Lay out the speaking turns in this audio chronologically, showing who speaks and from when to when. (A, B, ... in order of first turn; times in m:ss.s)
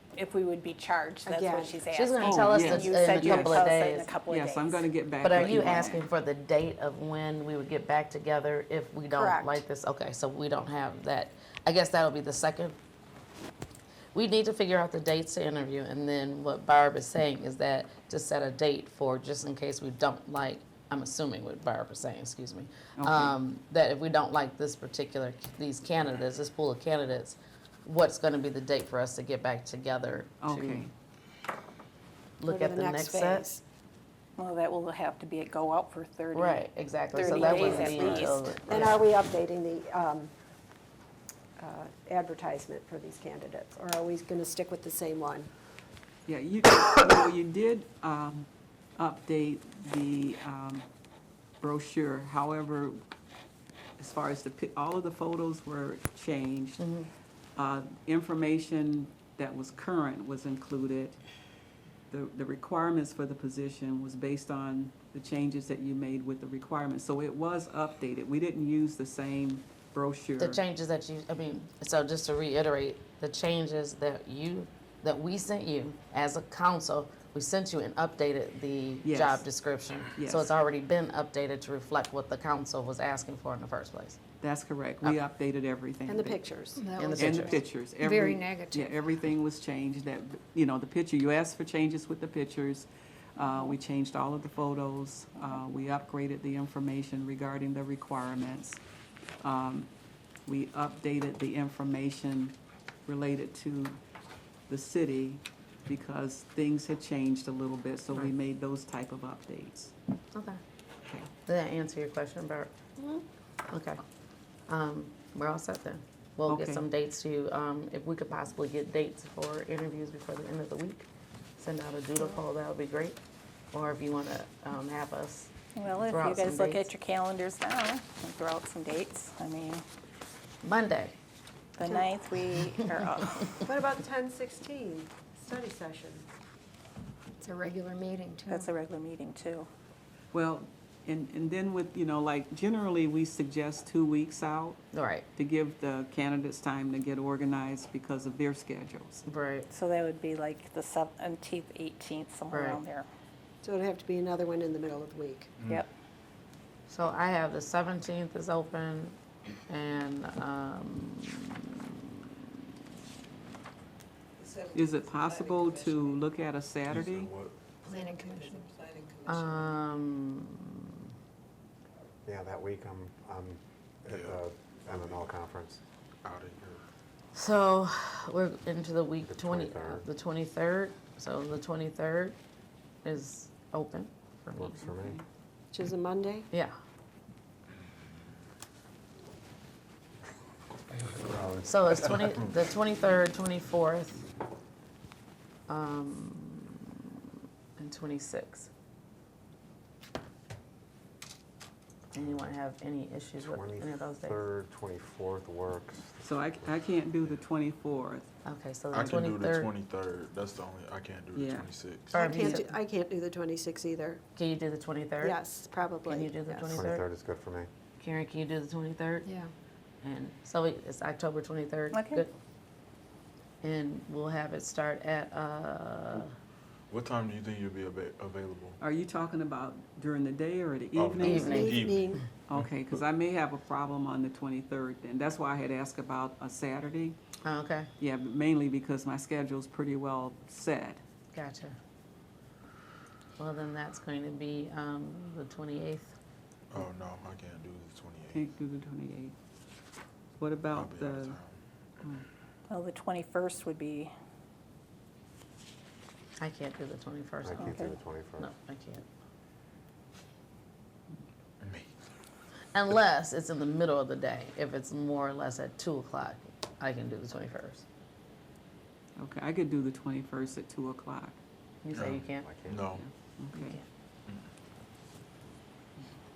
0:00.2-0:04.9 A
0:01.2-0:01.8 B
0:01.9-0:04.1 C
0:02.2-0:03.7 D
0:04.3-0:06.0 D
0:05.2-0:12.8 C
0:05.6-0:06.0 A
0:09.1-0:09.6 A
0:14.1-0:30.9 C
0:23.0-0:23.4 D
0:30.4-0:30.9 D
0:32.4-0:33.6 C
0:32.5-0:33.6 B
0:34.4-0:38.6 A
0:36.3-0:39.0 C
0:37.2-0:38.1 B
0:37.8-0:38.2 E
0:38.6-0:40.3 B
0:41.6-0:45.5 B
0:46.3-0:50.8 D
0:51.6-0:53.0 D
0:54.0-0:56.9 D
0:56.8-0:57.1 C
0:57.6-1:01.2 D
1:02.1-1:10.6 D
1:10.4-1:24.2 C
1:19.0-1:19.4 D
1:20.2-1:20.5 D
1:24.4-1:26.4 D
1:26.1-1:26.8 B
1:26.8-1:29.0 F
1:27.0-1:27.6 C
1:27.2-1:38.8 D
1:39.4-1:39.9 D
1:40.4-1:44.0 D
1:44.7-1:49.9 D
1:50.3-1:50.6 C
1:51.4-1:52.7 C
1:53.7-1:54.0 C
1:54.7-2:03.2 C
1:56.5-1:56.8 D
2:03.7-2:06.9 C
2:05.8-2:09.8 A
2:10.6-2:11.2 C
2:11.8-2:13.6 A
2:11.8-2:12.1 B
2:13.6-2:16.2 B
2:17.4-2:18.7 F
2:18.5-2:19.7 A
2:20.3-2:24.8 D
2:24.9-2:25.2 C
2:25.3-2:29.2 D
2:29.2-2:29.7 C
2:29.7-2:33.1 A
2:32.5-2:32.8 C
2:33.6-2:35.5 B
2:36.9-2:39.2 C
2:39.7-2:41.7 C
2:44.7-2:47.3 D
2:46.8-2:47.7 G
2:47.8-2:48.7 F
2:49.2-2:50.9 C
2:52.2-2:55.8 E
2:54.1-2:55.4 G
2:56.2-2:56.8 G
2:57.3-3:02.4 C
2:59.2-3:00.1 E
3:03.0-3:04.8 C
3:04.5-3:05.2 E
3:04.8-3:05.2 D
3:05.7-3:06.5 B
3:06.5-3:06.8 C
3:11.3-3:11.9 E
3:11.6-3:14.2 C
3:15.7-3:17.0 C
3:17.8-3:18.7 C
3:22.1-3:24.4 C
3:22.2-3:22.4 G
3:23.4-3:26.7 E
3:26.2-3:28.2 D
3:28.4-3:29.7 C
3:28.9-3:32.3 G
3:31.3-3:31.7 D
3:32.1-3:34.2 B
3:32.1-3:32.8 C
3:34.4-3:35.4 C
3:35.2-3:36.8 B
3:36.0-3:37.0 C
3:36.7-3:37.7 E
3:38.0-3:39.3 C
3:40.0-3:42.3 C
3:41.9-3:42.2 A
3:43.6-3:46.3 C
3:46.9-3:48.8 G
3:48.8-3:51.6 D
3:50.9-3:52.6 G
3:51.2-3:52.2 B
3:51.2-3:51.8 C
3:52.4-3:57.2 D
3:57.4-3:57.9 C
3:58.0-4:01.0 D
4:01.3-4:01.8 C
4:03.4-4:06.2 C
4:06.7-4:08.4 G
4:08.3-4:09.3 D
4:10.4-4:11.4 D
4:10.7-4:11.6 G
4:12.7-4:14.1 A
4:16.4-4:19.0 C
4:17.4-4:18.5 E
4:17.6-4:17.9 A
4:21.6-4:21.9 G
4:22.7-4:27.8 C
4:29.2-4:31.4 D
4:31.8-4:32.4 C
4:31.9-4:33.0 G
4:32.3-4:32.9 E
4:32.9-4:33.8 D
4:33.5-4:33.8 C